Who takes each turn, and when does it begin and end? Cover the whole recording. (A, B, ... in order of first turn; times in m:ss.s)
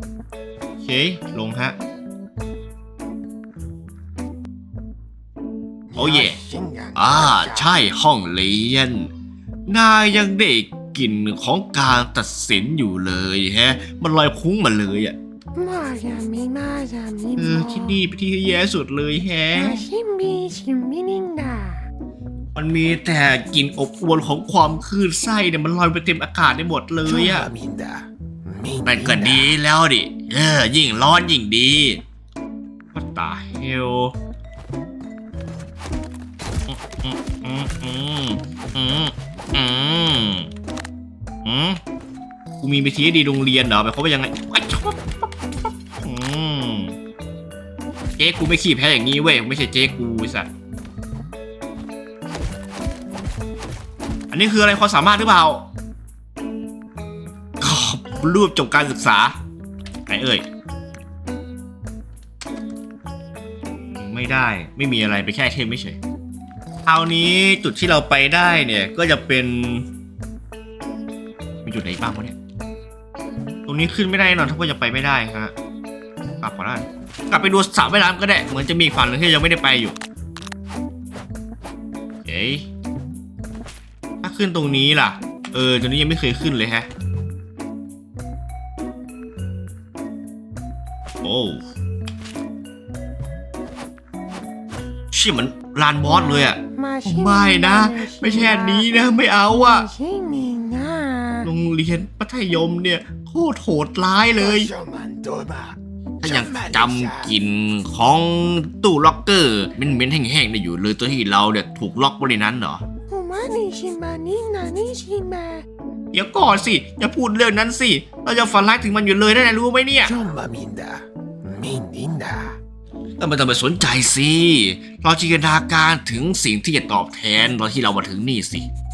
0:00.8-0:01.8 A
0:05.9-0:07.7 B
0:06.0-0:06.4 A
0:06.9-0:09.1 A
0:09.7-0:15.2 A
0:15.5-0:18.0 C
0:17.4-0:19.8 A
0:19.5-0:21.8 C
0:22.5-0:27.5 A
0:27.0-0:29.6 B
0:28.8-0:32.0 A
0:32.9-0:34.1 A
0:36.7-0:40.5 A
0:41.4-0:41.8 A
0:42.6-0:47.0 A
0:48.2-0:50.5 A
0:54.3-0:55.7 A
0:57.6-0:59.4 A
1:00.1-1:00.4 A
1:04.0-1:06.0 A
1:06.8-1:09.8 A
1:11.6-1:12.4 A
1:13.7-1:15.5 A
1:16.4-1:20.0 A
1:22.2-1:22.7 A
1:24.2-1:26.9 A
1:31.2-1:31.6 A
1:35.1-1:39.9 A
1:36.0-1:38.9 C
1:39.5-1:41.5 C
1:41.4-1:44.7 A
1:44.4-1:47.3 B
1:46.2-1:52.8 A
1:53.1-1:55.6 C
1:56.1-2:00.1 A
2:00.0-2:02.6 B
2:03.2-2:08.7 A